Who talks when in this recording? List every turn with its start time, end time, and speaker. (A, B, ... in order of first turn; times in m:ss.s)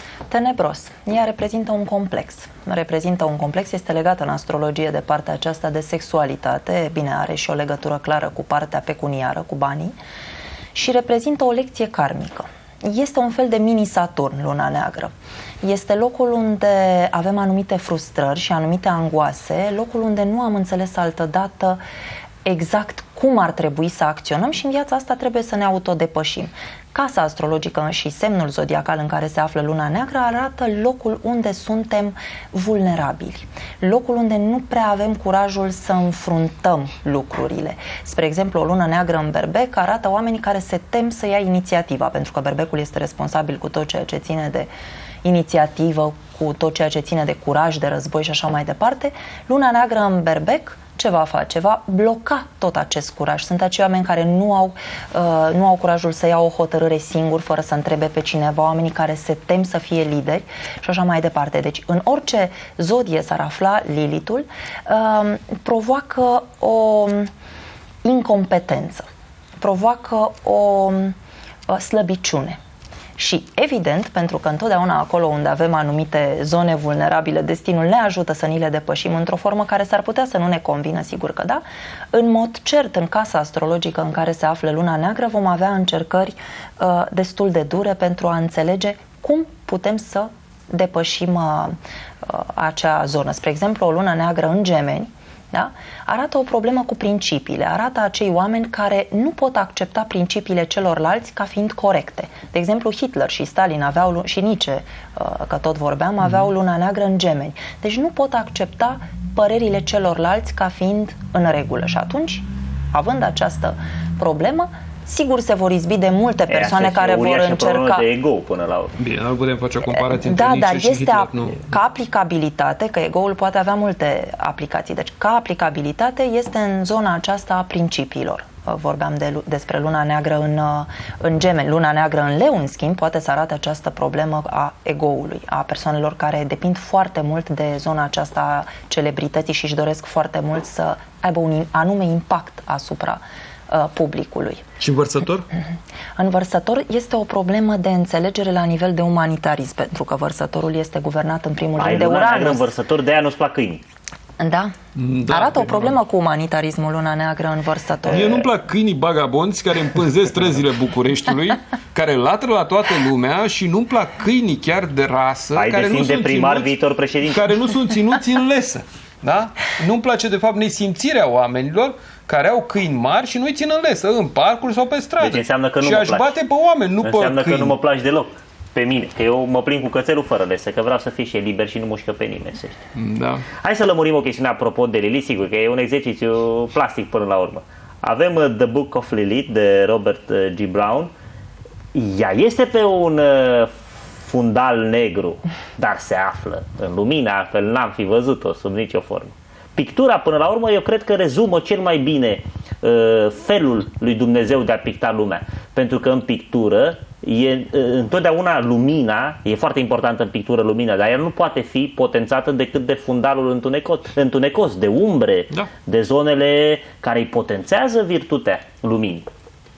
0:00.3-0:09.9 A
0:10.7-0:15.1 A
0:15.6-0:21.8 A
0:22.4-0:44.7 A
0:45.2-1:07.3 A
1:08.0-1:09.0 A
1:09.6-1:11.1 A
1:11.7-1:12.6 A
1:13.2-1:58.1 A
1:56.5-1:58.9 B
1:59.0-2:01.8 C
1:59.9-2:24.6 A
2:24.8-2:25.5 C
2:26.2-2:32.7 A
2:31.8-2:33.8 B
2:34.4-2:34.7 A
2:35.0-2:36.0 C
2:35.3-2:38.5 A
2:38.1-2:46.7 C
2:45.5-2:47.5 B
2:47.2-2:57.8 C
2:55.2-2:56.3 B
2:57.0-3:02.8 B
3:02.9-3:03.4 C
3:03.5-3:11.1 B
3:11.9-3:39.3 B